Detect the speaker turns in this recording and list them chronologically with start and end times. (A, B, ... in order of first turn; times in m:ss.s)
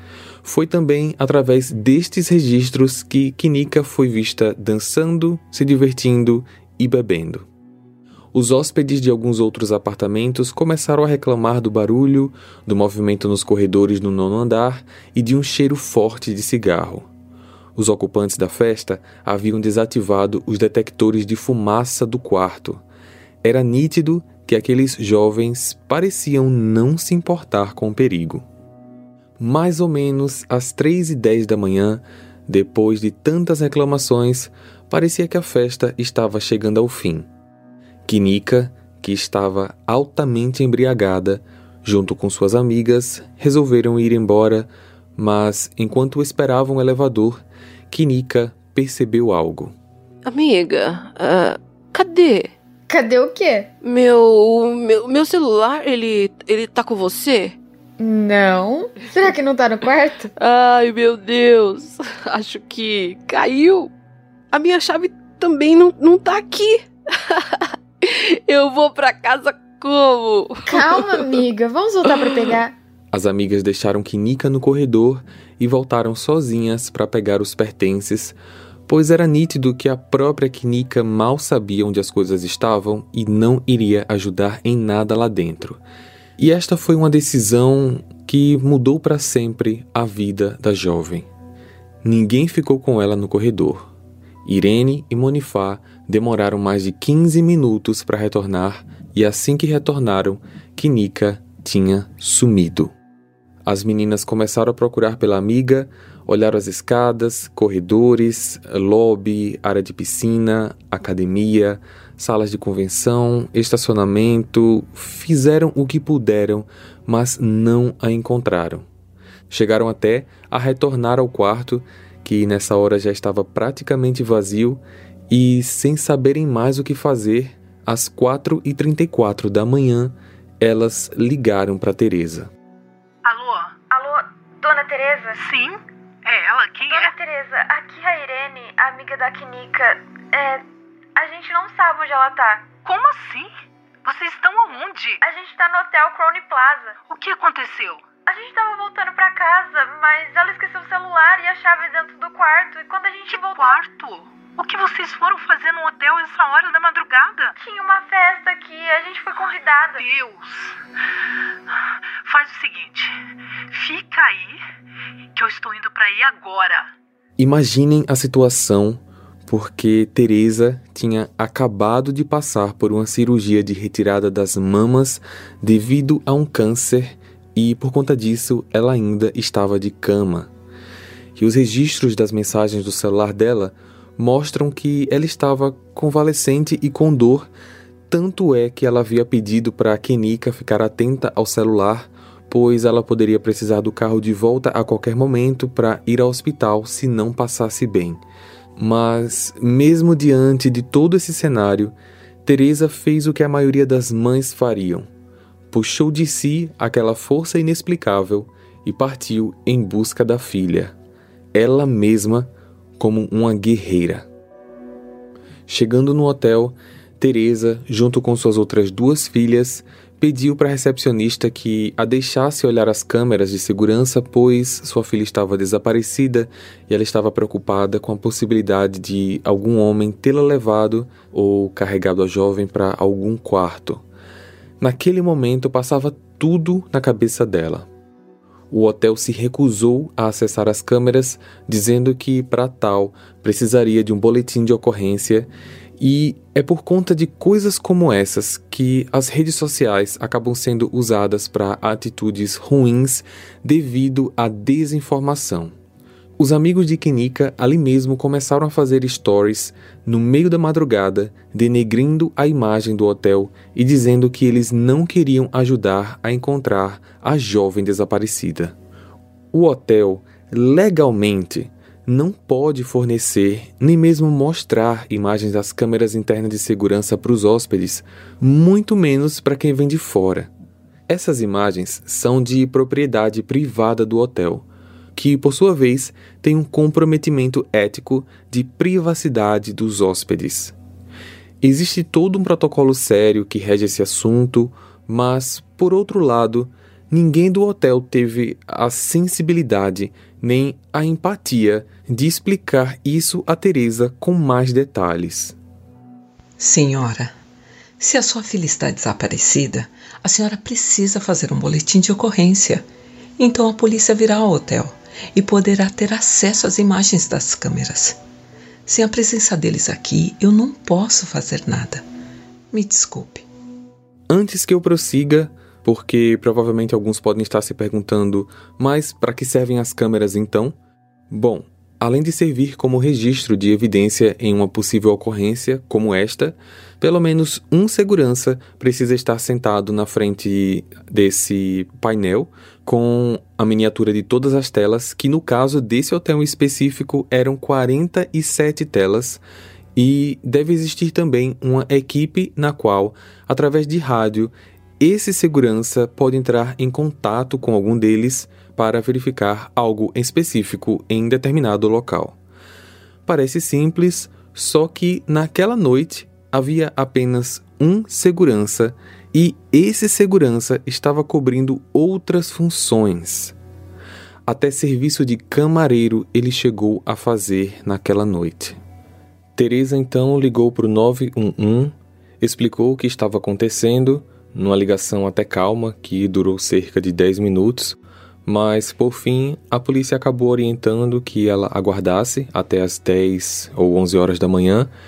0:00.4-0:07.5 A
0:08.3-0:17.1 A
0:17.8-0:22.8 A
0:23.4-0:28.4 A
0:29.4-0:37.3 A
0:38.1-0:49.7 A
0:50.2-0:52.5 B
0:52.9-0:53.7 C
0:53.8-0:57.6 B
0:58.0-1:00.3 C
1:00.4-1:03.9 B
1:04.5-1:11.4 B
1:10.7-1:12.7 C
1:12.1-1:12.6 B
1:13.1-1:18.4 A
1:18.9-1:25.8 A
1:26.4-1:31.3 A
1:32.0-1:33.9 A
1:34.4-1:42.9 A
1:43.6-1:58.8 A
1:59.5-2:12.5 A
2:13.2-2:13.7 D
2:13.9-2:15.4 C
2:15.4-2:17.1 D
2:16.9-2:22.7 C
2:22.8-2:23.5 D
2:24.0-2:25.2 D
2:25.2-2:27.0 C
2:27.1-2:28.0 D
2:28.2-2:33.8 C
2:33.3-2:37.5 D
2:37.6-2:40.0 C
2:39.4-2:40.8 D
2:42.2-2:43.2 D
2:43.7-2:44.6 D
2:45.3-2:46.9 D
2:47.4-3:00.5 A
3:01.4-3:07.5 A
3:08.1-3:18.2 A
3:18.8-3:25.1 A
3:25.7-3:30.9 A
3:31.5-3:34.3 A
3:35.7-3:54.0 A
3:54.8-3:57.9 A
3:58.7-4:15.7 A
4:16.4-4:28.7 A
4:29.5-4:40.5 A
4:41.1-4:50.7 A
4:51.6-5:05.5 A
5:06.6-5:07.3 E
5:08.0-5:12.9 E
5:13.4-5:18.2 E
5:18.9-5:22.0 E
5:22.7-5:23.4 E
5:24.3-5:30.7 A
5:31.3-5:49.4 A
5:50.0-6:02.4 A
6:03.2-6:13.5 A
6:14.5-6:18.8 A
6:19.6-6:34.9 A